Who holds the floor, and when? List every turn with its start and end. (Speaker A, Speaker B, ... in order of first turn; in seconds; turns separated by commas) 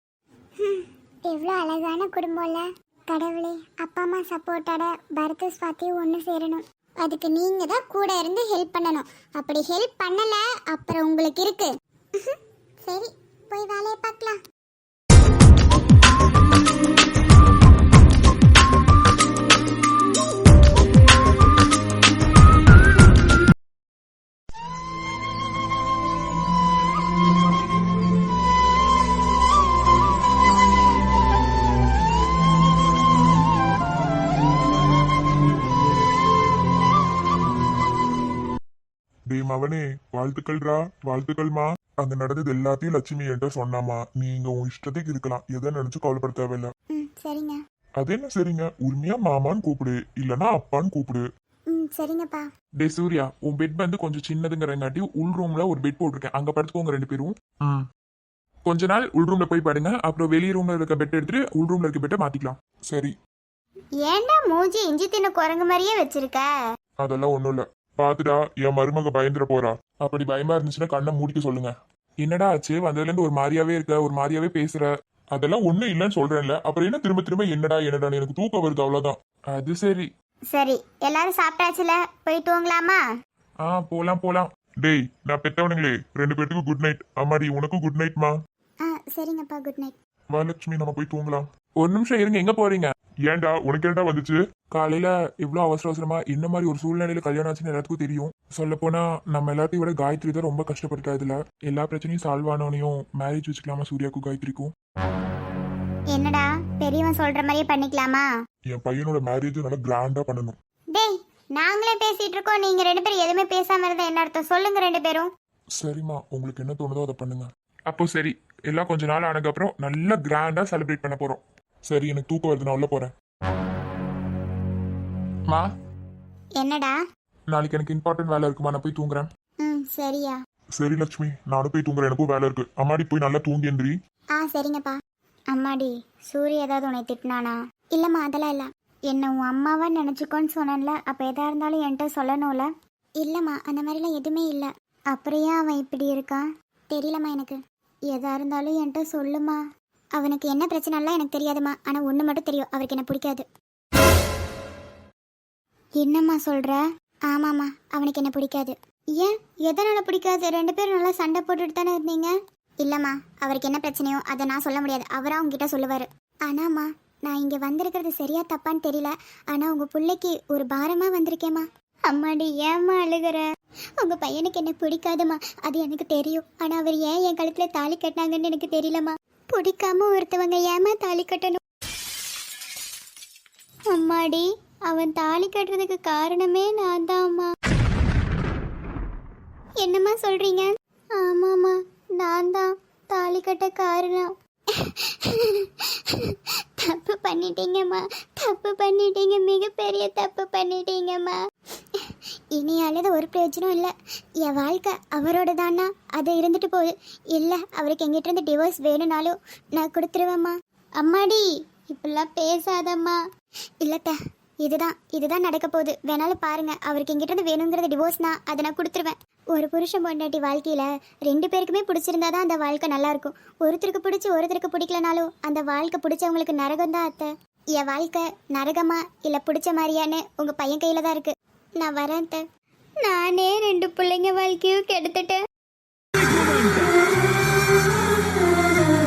Speaker A: 0.6-14.4, Speaker B: 39.3-46.7, Speaker A: 46.9-47.6, Speaker B: 48.0-51.2, Speaker A: 51.7-52.5, Speaker C: 52.8-57.3, Speaker C: 58.7-62.6, Speaker A: 64.0-66.5, Speaker B: 67.0-69.8, Speaker C: 70.1-70.4, Speaker B: 70.9-71.7, Speaker C: 72.2-74.9, Speaker B: 75.3-79.2, Speaker C: 79.5-80.1, Speaker A: 80.5-83.0, Speaker C: 83.6-84.5, Speaker B: 84.8-88.3, Speaker A: 88.8-90.0, Speaker B: 90.4-91.5, Speaker C: 91.8-92.9, Speaker B: 93.3-94.4, Speaker C: 94.7-104.7, Speaker A: 106.1-108.3, Speaker B: 108.7-110.6, Speaker A: 110.9-115.3, Speaker B: 115.8-117.5, Speaker C: 117.9-121.4, Speaker B: 121.9-123.1, Speaker A: 126.6-127.0, Speaker C: 127.5-129.3, Speaker A: 129.6-130.4, Speaker B: 130.8-133.9, Speaker A: 134.4-135.0, Speaker A: 135.5-142.7, Speaker A: 143.2-147.6, Speaker A: 148.1-149.6, Speaker A: 150.2-153.4, Speaker A: 156.0-173.5, Speaker A: 174.0-181.6, Speaker A: 183.9-187.5, Speaker A: 189.8-201.4, Speaker A: 202.6-203.9, Speaker A: 204.4-213.2, Speaker A: 213.8-232.4, Speaker A: 233.0-235.4, Speaker C: 236.2-236.9